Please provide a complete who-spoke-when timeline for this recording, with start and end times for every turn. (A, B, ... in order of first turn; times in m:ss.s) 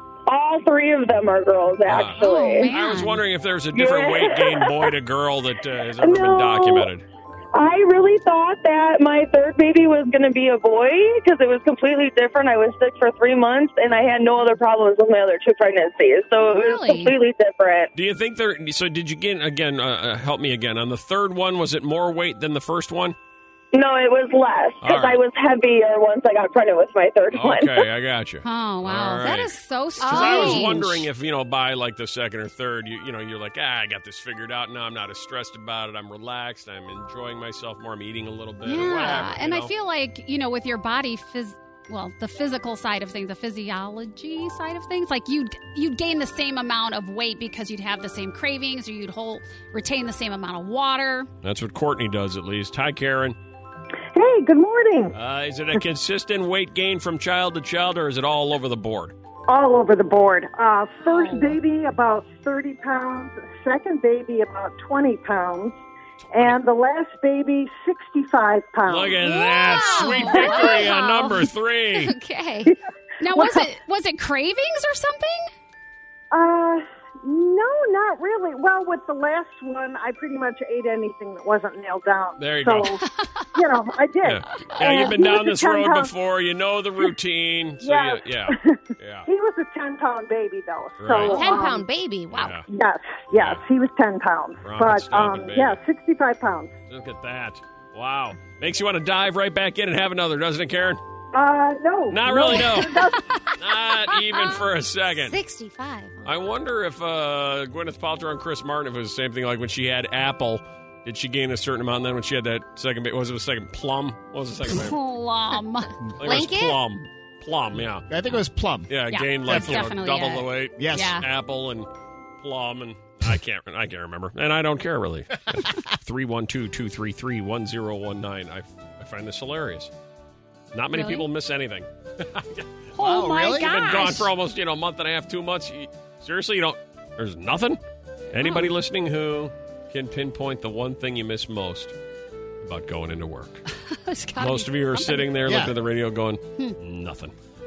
0:00.3-0:02.7 A
0:01.9-0:07.0 B
0:02.2-0:03.2 C
0:03.7-0:04.9 A
0:06.0-0:06.9 A
0:07.6-0:17.9 A
0:16.5-0:17.2 C
0:18.0-0:23.2 B
0:23.7-0:27.9 A
0:24.8-0:25.2 B
0:27.3-0:39.7 B
0:28.4-0:31.0 C
0:30.0-0:30.8 D
0:38.6-0:51.3 C
0:51.4-0:53.4 B
0:54.1-0:55.2 E
0:55.2-0:59.1 B
0:59.5-1:05.8 E
1:01.0-1:01.6 C
1:06.3-1:09.4 E
1:08.9-1:12.2 B
1:09.2-1:11.4 C
1:10.0-1:11.3 D
1:10.4-1:10.7 E
1:12.0-1:12.7 D
1:13.2-1:15.5 C
1:13.3-1:13.7 E
1:16.3-1:23.0 E
1:22.4-1:22.9 B
1:23.6-1:26.1 E
1:24.2-1:29.3 B
1:27.8-1:31.9 E
1:31.0-1:31.6 B
1:31.3-1:32.6 D
1:32.3-1:32.6 B
1:32.7-1:36.7 E
1:33.3-1:33.6 B
1:34.6-1:35.8 B
1:36.9-1:41.0 B
1:41.3-1:43.2 E
1:42.1-1:45.4 B
1:45.2-1:46.2 D
1:46.2-1:55.0 B
1:54.7-1:55.9 C
1:56.2-1:58.1 B
1:56.2-1:56.8 D
1:58.1-1:58.9 F
1:58.9-2:01.9 B
1:59.1-2:01.2 C
1:59.4-1:59.9 F
2:00.8-2:01.3 F
2:02.4-2:09.9 B
2:05.5-2:05.8 F
2:10.7-2:12.7 B
2:10.9-2:11.2 C
2:13.0-2:14.1 F
2:13.0-2:14.3 C
2:13.6-2:17.8 B
2:18.3-2:21.9 B
2:18.4-2:18.7 C
2:22.6-2:23.6 B
2:23.9-2:25.3 C
2:24.4-2:27.3 B
2:25.4-2:25.8 F